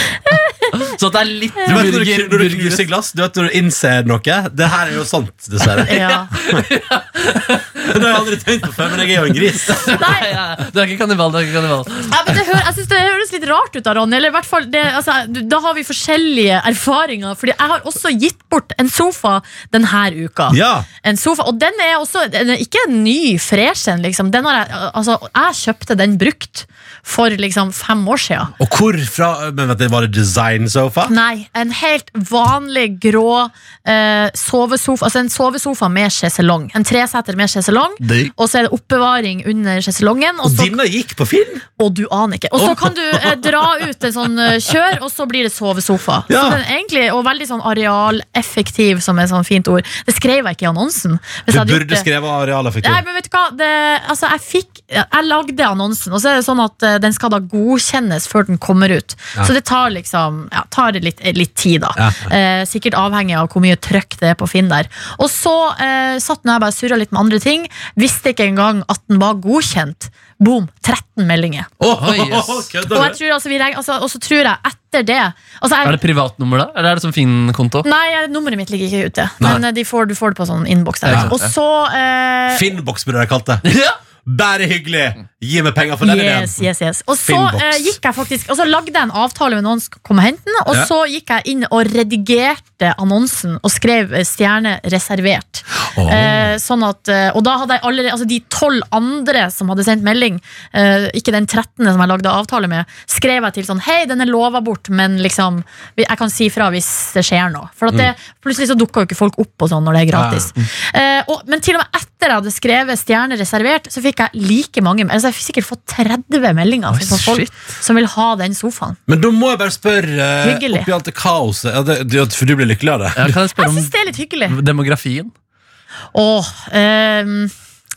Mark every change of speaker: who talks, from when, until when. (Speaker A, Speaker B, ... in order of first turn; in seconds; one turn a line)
Speaker A: 0.3-0.7
Speaker B: 0.8-2.9
Speaker C: 1.7-6.6
Speaker B: 5.8-8.1
Speaker A: 5.9-6.3
Speaker C: 7.8-9.9
Speaker B: 9.7-12.1
Speaker A: 9.9-10.2
Speaker A: 12.1-28.5
Speaker C: 20.5-20.9
Speaker C: 28.6-31.1
Speaker A: 31.1-40.7
Speaker B: 38.0-38.3
Speaker C: 40.4-41.6
Speaker A: 41.8-52.1
Speaker C: 42.6-43.6
Speaker C: 46.3-46.6
Speaker C: 51.5-53.0
Speaker A: 52.8-71.7
Speaker C: 62.0-62.3
Speaker C: 71.8-73.2
Speaker B: 72.0-72.7
Speaker A: 72.9-76.0
Speaker B: 75.8-77.9
Speaker A: 77.8-82.6
Speaker B: 81.0-81.5
Speaker C: 81.1-81.3
Speaker C: 82.5-83.7
Speaker B: 83.7-84.0
Speaker C: 84.2-86.6
Speaker A: 86.0-119.0
Speaker C: 87.2-88.0
Speaker C: 95.9-96.5
Speaker C: 110.1-110.5
Speaker B: 117.0-117.5
Speaker C: 119.1-123.3
Speaker A: 120.4-120.9
Speaker B: 123.2-123.9
Speaker A: 123.5-124.5
Speaker B: 124.5-125.3
Speaker A: 126.1-127.5